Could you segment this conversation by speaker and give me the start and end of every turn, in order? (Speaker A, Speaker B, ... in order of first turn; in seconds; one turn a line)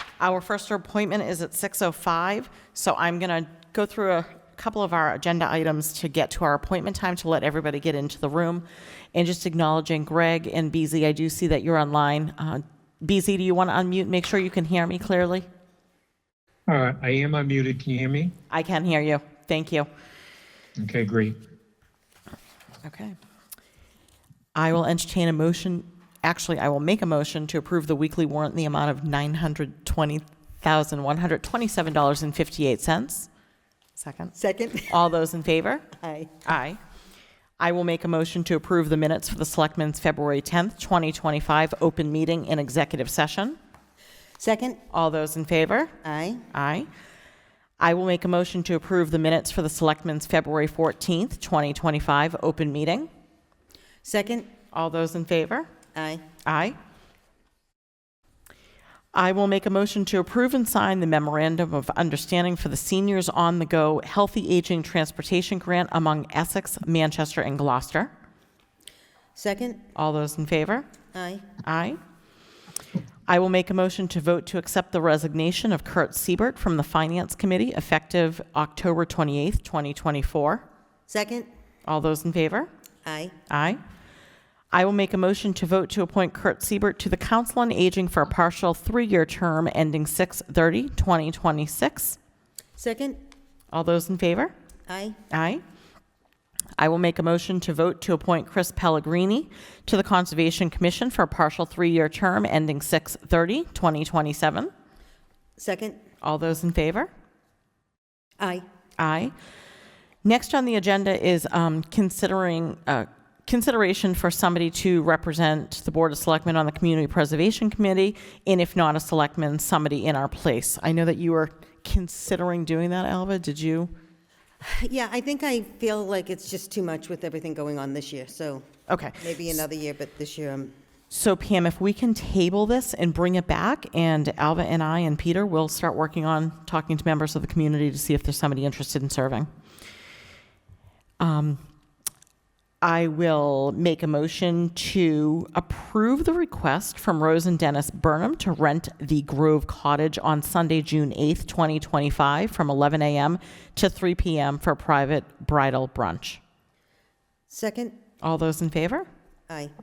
Speaker A: 0.2-15.5
Speaker B: 16.7-18.3
Speaker A: 18.5-19.9
Speaker B: 20.8-21.4
Speaker A: 22.8-23.2
Speaker A: 24.6-33.3
Speaker A: 34.0-34.4
Speaker C: 34.4-35.0
Speaker A: 34.9-35.9
Speaker C: 36.0-36.4
Speaker A: 36.5-36.8
Speaker A: 37.6-43.6
Speaker C: 44.4-44.8
Speaker A: 44.9-46.0
Speaker C: 46.0-46.5
Speaker A: 46.5-46.9
Speaker A: 47.8-53.1
Speaker C: 54.0-54.5
Speaker A: 54.7-55.7
Speaker C: 55.9-56.3
Speaker A: 56.5-56.8
Speaker A: 59.1-68.1
Speaker C: 69.4-69.9
Speaker A: 70.0-70.9
Speaker C: 71.1-71.5
Speaker A: 71.6-72.0
Speaker A: 73.3-80.7
Speaker C: 81.1-81.5
Speaker A: 81.9-82.7
Speaker C: 83.0-83.4
Speaker A: 83.5-83.8
Speaker A: 84.7-92.2
Speaker C: 92.8-93.3
Speaker A: 93.7-94.5
Speaker C: 94.9-95.2
Speaker A: 95.3-95.6
Speaker A: 96.8-104.7
Speaker C: 105.6-106.0
Speaker A: 106.2-107.1
Speaker C: 108.4-108.7
Speaker A: 109.0-109.3
Speaker A: 110.2-123.9
Speaker C: 124.6-128.7
Speaker A: 128.9-129.6
Speaker C: 129.2-130.7
Speaker A: 131.1-139.5
Speaker A: 141.2-141.6
Speaker A: 142.8-156.4
Speaker C: 157.5-158.0
Speaker A: 158.2-159.1